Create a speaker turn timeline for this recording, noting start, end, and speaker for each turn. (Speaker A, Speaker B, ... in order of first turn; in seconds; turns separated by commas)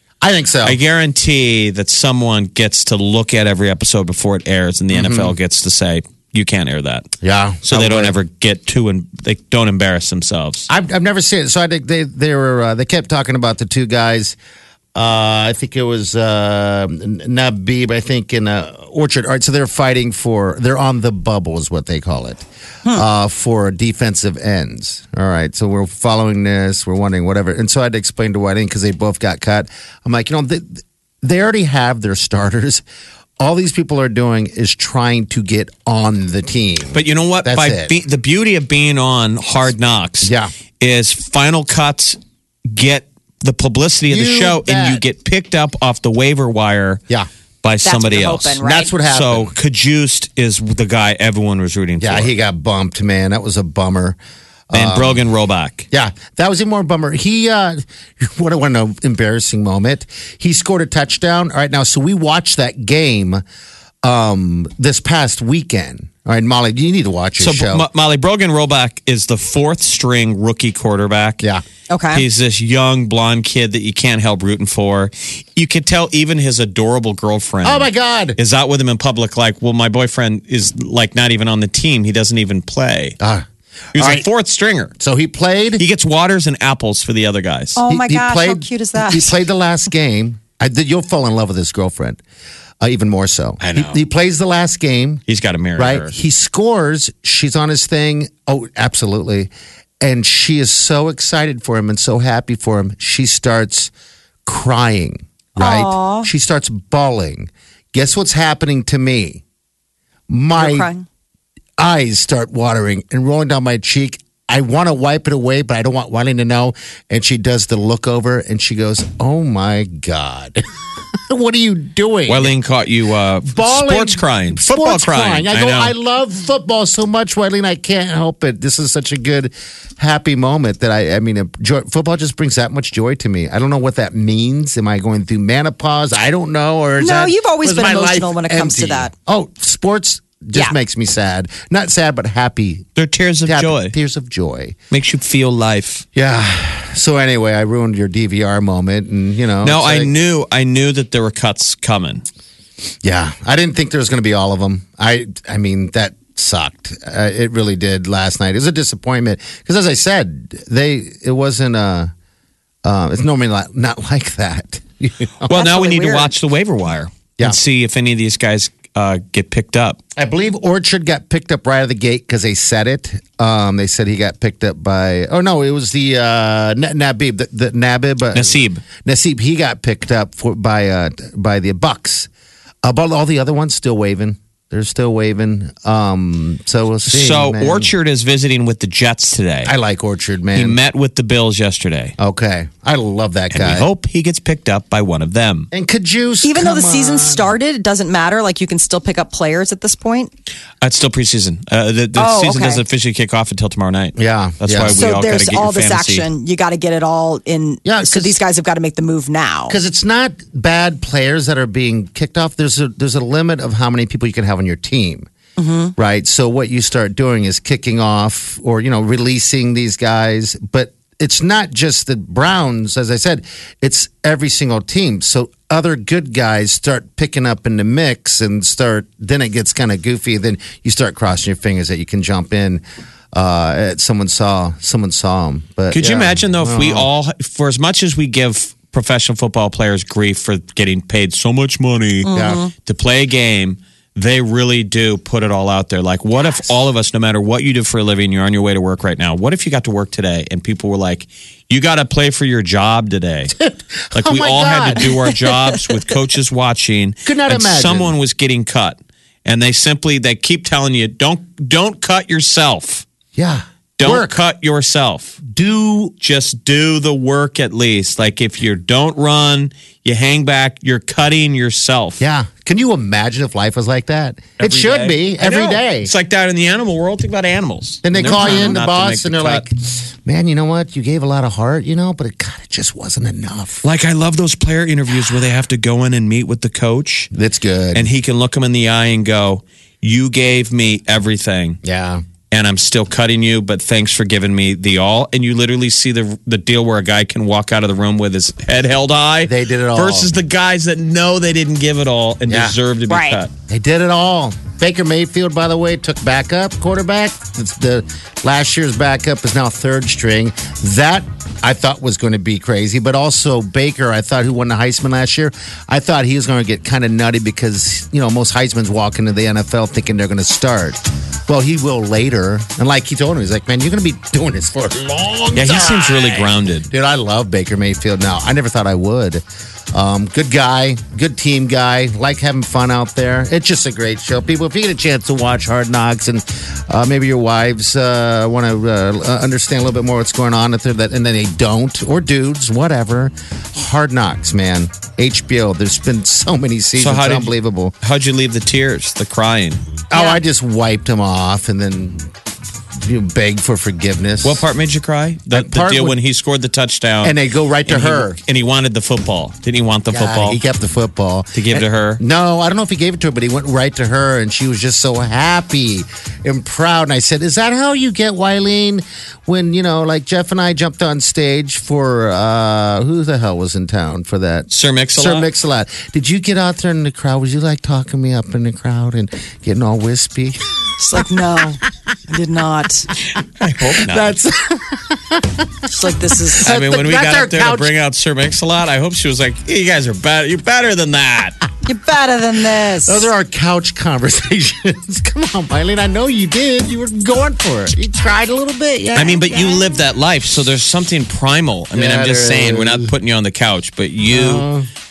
Speaker A: 0.2-0.8, Speaker B: 0.6-7.1, Speaker A: 4.9-5.4, Speaker A: 7.2-8.2, Speaker B: 7.7-10.7, Speaker A: 10.7-14.4, Speaker A: 14.9-32.8, Speaker A: 33.4-38.0, Speaker B: 36.9-42.2, Speaker A: 40.2-40.5, Speaker B: 42.7-47.0, Speaker A: 44.1-45.0, Speaker B: 47.6-52.3, Speaker C: 47.8-49.0, Speaker A: 48.6-49.5, Speaker A: 52.0-54.2, Speaker A: 54.7-55.3, Speaker B: 54.7-55.9, Speaker A: 55.9-63.4, Speaker A: 64.0-67.9, Speaker B: 67.4-71.4, Speaker C: 71.9-72.2, Speaker B: 72.1-83.2, Speaker A: 77.6-78.4, Speaker A: 83.2-84.3, Speaker B: 83.9-85.0, Speaker A: 85.0-85.8, Speaker B: 85.8-87.8, Speaker C: 87.8-89.4, Speaker A: 87.9-92.2, Speaker A: 92.8-95.2, Speaker B: 93.6-94.0, Speaker B: 95.3-96.1, Speaker A: 95.8-103.9, Speaker A: 104.5-109.4, Speaker C: 105.6-106.3, Speaker A: 110.3-110.9, Speaker C: 110.5-111.1, Speaker A: 111.8-120.6, Speaker A: 121.3-122.5, Speaker B: 122.3-125.9, Speaker A: 123.5-142.9, Speaker C: 137.0-139.1, Speaker B: 143.0-143.9, Speaker A: 143.4-144.8, Speaker B: 144.9-146.1, Speaker A: 146.2-150.1, Speaker B: 149.6-152.2, Speaker A: 153.0-162.1, Speaker A: 162.8-166.3, Speaker B: 165.4-170.0, Speaker A: 170.2-182.3, Speaker B: 178.3-178.8, Speaker A: 182.8-187.9, Speaker B: 187.1-189.7, Speaker A: 189.7-190.8, Speaker B: 190.5-192.1, Speaker A: 192.2-193.9, Speaker B: 193.5-195.7, Speaker A: 195.7-197.5, Speaker C: 196.4-200.3, Speaker B: 200.8-206.3, Speaker C: 202.2-202.8, Speaker A: 204.2-205.1, Speaker C: 204.9-209.8, Speaker A: 207.8-208.4, Speaker A: 209.7-215.3, Speaker C: 215.6-215.9, Speaker A: 216.0-237.1, Speaker B: 235.9-253.5, Speaker C: 242.2-242.7, Speaker A: 242.3-242.7, Speaker A: 253.6-255.2, Speaker B: 254.2-263.1, Speaker A: 257.3-258.2, Speaker A: 263.4-264.3, Speaker B: 264.0-265.4, Speaker A: 265.4-266.1, Speaker B: 266.2-272.2, Speaker A: 272.2-276.1, Speaker B: 274.6-279.7, Speaker A: 278.0-283.9, Speaker B: 283.8-287.3, Speaker A: 287.3-288.1, Speaker B: 287.9-291.8, Speaker A: 291.8-292.2, Speaker B: 292.5-303.5, Speaker A: 299.4-300.3, Speaker A: 302.5-302.8, Speaker C: 303.1-303.4, Speaker A: 303.7-347.9, Speaker B: 325.5-326.9, Speaker B: 347.0-349.8, Speaker A: 350.1-352.3, Speaker A: 353.0-354.7, Speaker B: 354.4-360.6, Speaker A: 355.5-356.2, Speaker A: 357.2-358.4, Speaker A: 360.1-380.6, Speaker B: 361.5-362.2, Speaker B: 374.7-375.5, Speaker C: 381.0-383.1, Speaker B: 383.6-384.4, Speaker A: 384.0-385.7, Speaker C: 385.9-386.7, Speaker A: 386.5-387.9, Speaker B: 386.6-391.6, Speaker C: 391.9-393.3, Speaker A: 392.9-399.8, Speaker B: 399.1-404.7, Speaker A: 401.9-403.1, Speaker A: 404.3-404.9